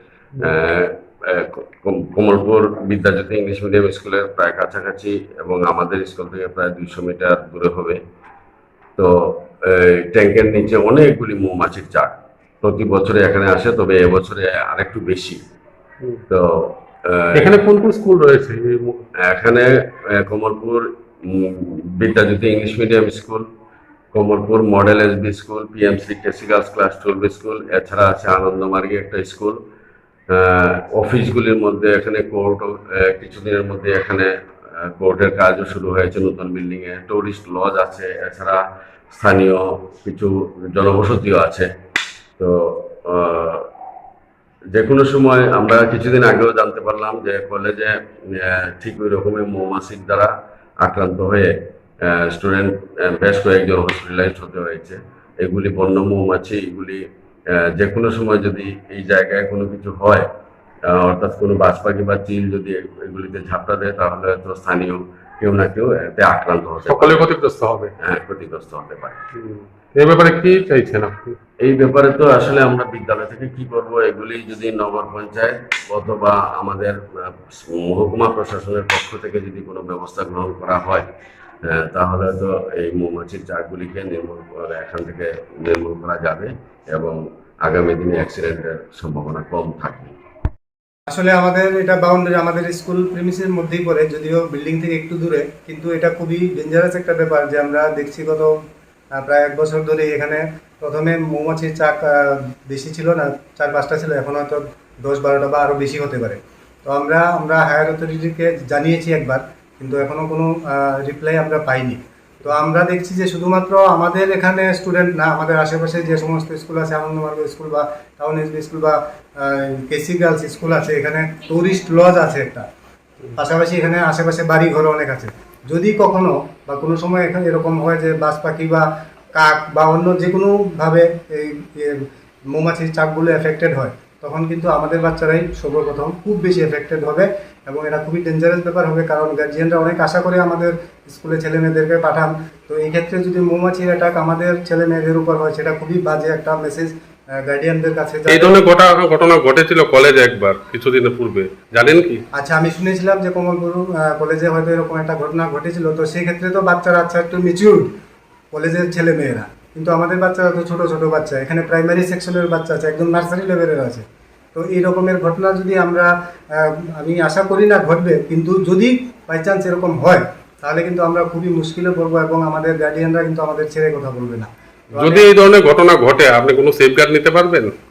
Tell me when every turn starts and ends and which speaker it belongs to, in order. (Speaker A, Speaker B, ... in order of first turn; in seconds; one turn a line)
Speaker A: 0.4-8.0
Speaker A: 9.0-15.4
Speaker A: 16.3-17.6
Speaker B: 17.3-19.0
Speaker A: 19.2-23.5
Speaker A: 24.1-29.6
Speaker A: 30.3-41.7
Speaker A: 42.4-43.7
Speaker A: 44.7-60.3
Speaker A: 60.9-67.3
Speaker B: 66.9-67.9
Speaker A: 68.0-69.2
Speaker B: 69.4-71.4
Speaker A: 71.6-81.1
Speaker A: 81.6-90.2
Speaker C: 91.1-98.6
Speaker C: 99.1-122.7
Speaker C: 123.4-148.6
Speaker B: 148.3-152.2
Speaker C: 152.3-157.9
Speaker C: 158.5-175.3
Speaker B: 174.9-177.7